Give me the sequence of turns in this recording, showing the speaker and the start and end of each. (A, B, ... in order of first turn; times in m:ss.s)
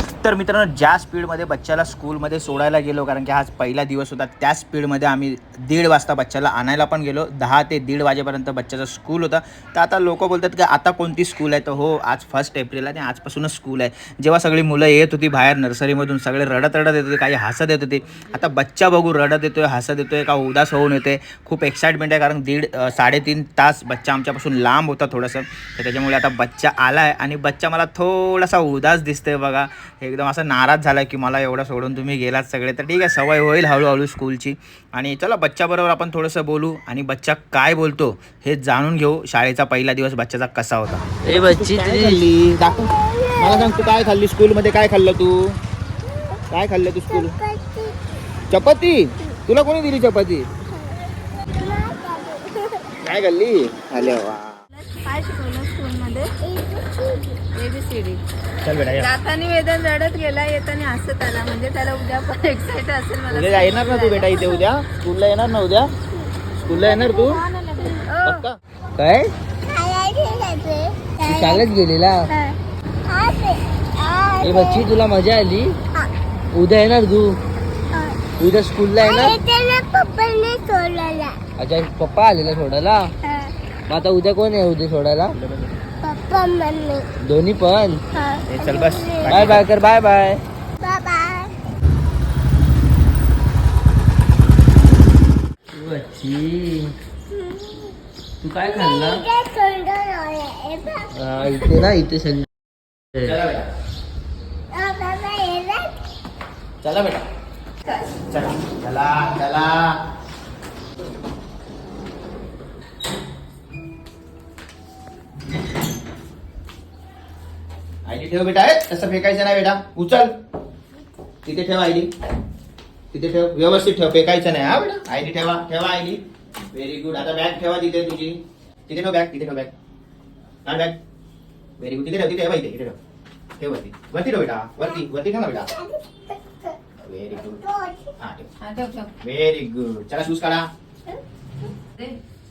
0:00.2-0:45.6 A
0:41.2-0:42.2 B
0:42.6-0:44.0 C
0:46.5-0:47.3 A
0:47.1-0:48.0 C
0:48.5-0:50.5 A
0:50.7-0:52.9 C
0:53.0-0:54.6 A
0:54.8-0:56.3 D
0:56.4-0:57.4 C
0:57.5-0:58.2 D
0:58.6-0:59.1 A
0:59.0-1:04.6 D
1:03.3-1:05.9 A
1:06.6-1:07.4 A
1:06.7-1:08.4 D
1:08.2-1:08.6 A
1:09.0-1:09.3 B
1:09.6-1:11.7 C
1:11.2-1:12.3 B
1:12.3-1:14.9 C
1:14.4-1:15.8 B
1:16.5-1:17.4 B
1:17.9-1:18.3 C
1:18.4-1:19.3 B
1:19.0-1:21.4 C
1:21.6-1:23.1 B
1:23.2-1:23.5 C
1:23.9-1:25.4 B
1:25.3-1:25.7 A
1:26.0-1:27.1 C
1:27.2-1:28.0 B
1:28.1-1:29.4 C
1:28.5-1:29.7 A
1:29.3-1:30.4 B
1:30.8-1:31.5 C
1:35.7-1:36.9 B
1:37.3-1:38.0 C
1:38.4-1:39.2 B
1:38.6-1:41.9 C
1:41.1-1:42.4 B
1:43.2-1:43.7 A
1:44.7-1:45.9 C
1:46.8-1:47.2 A
1:48.3-1:50.0 A
1:58.0-2:00.3 A
2:01.4-2:02.1 A
2:03.1-2:06.2 A
2:06.7-2:09.7 A
2:10.6-2:11.0 A
2:11.8-2:13.0 A
2:13.6-2:15.7 A
2:14.8-2:16.8 C
2:17.0-2:17.6 A
2:17.4-2:18.1 C
2:18.2-2:18.5 A
2:18.6-2:19.1 D
2:19.2-2:20.7 A